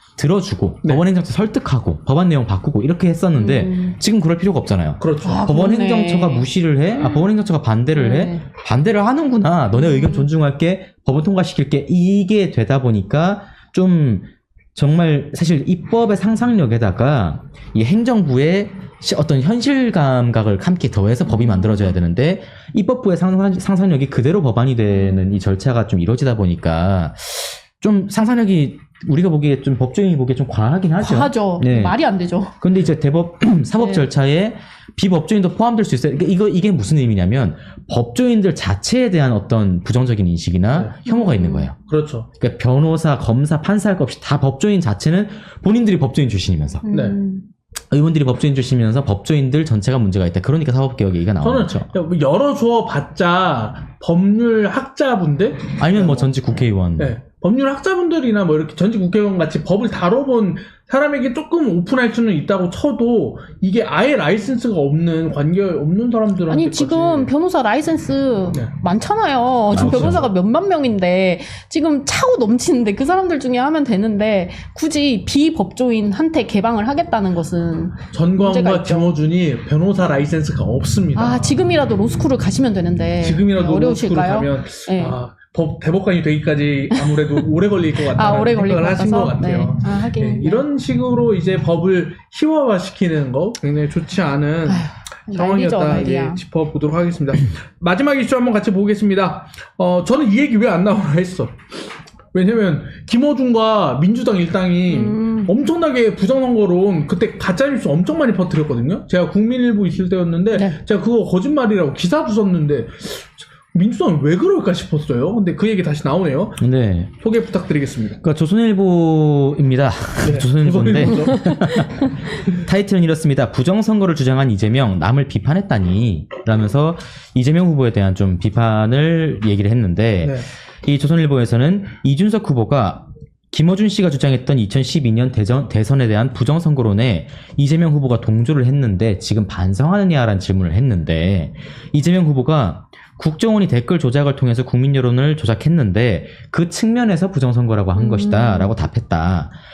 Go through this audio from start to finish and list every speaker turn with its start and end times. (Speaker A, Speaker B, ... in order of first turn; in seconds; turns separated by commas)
Speaker A: 0.2-32.0, Speaker B: 3.4-4.0, Speaker C: 5.0-5.6, Speaker B: 5.2-6.5, Speaker B: 7.0-7.3, Speaker B: 8.0-8.4, Speaker B: 9.8-10.3, Speaker B: 21.5-21.8, Speaker B: 24.9-25.2, Speaker B: 31.0-32.5, Speaker A: 32.6-41.8, Speaker B: 33.8-34.1, Speaker B: 41.1-41.7, Speaker C: 41.9-42.3, Speaker A: 42.4-46.9, Speaker B: 46.8-47.5, Speaker A: 47.9-51.9, Speaker C: 51.4-56.4, Speaker A: 55.8-57.1, Speaker C: 57.0-67.3, Speaker B: 66.5-79.1, Speaker A: 69.7-70.3, Speaker C: 69.8-70.3, Speaker C: 78.1-81.6, Speaker B: 81.2-85.2, Speaker C: 83.2-116.6, Speaker B: 88.1-90.7, Speaker B: 94.7-96.4, Speaker B: 104.9-105.5, Speaker A: 116.6-117.1, Speaker C: 117.2-118.2, Speaker A: 118.2-149.5, Speaker C: 120.2-121.7, Speaker C: 130.2-130.5, Speaker B: 148.0-148.7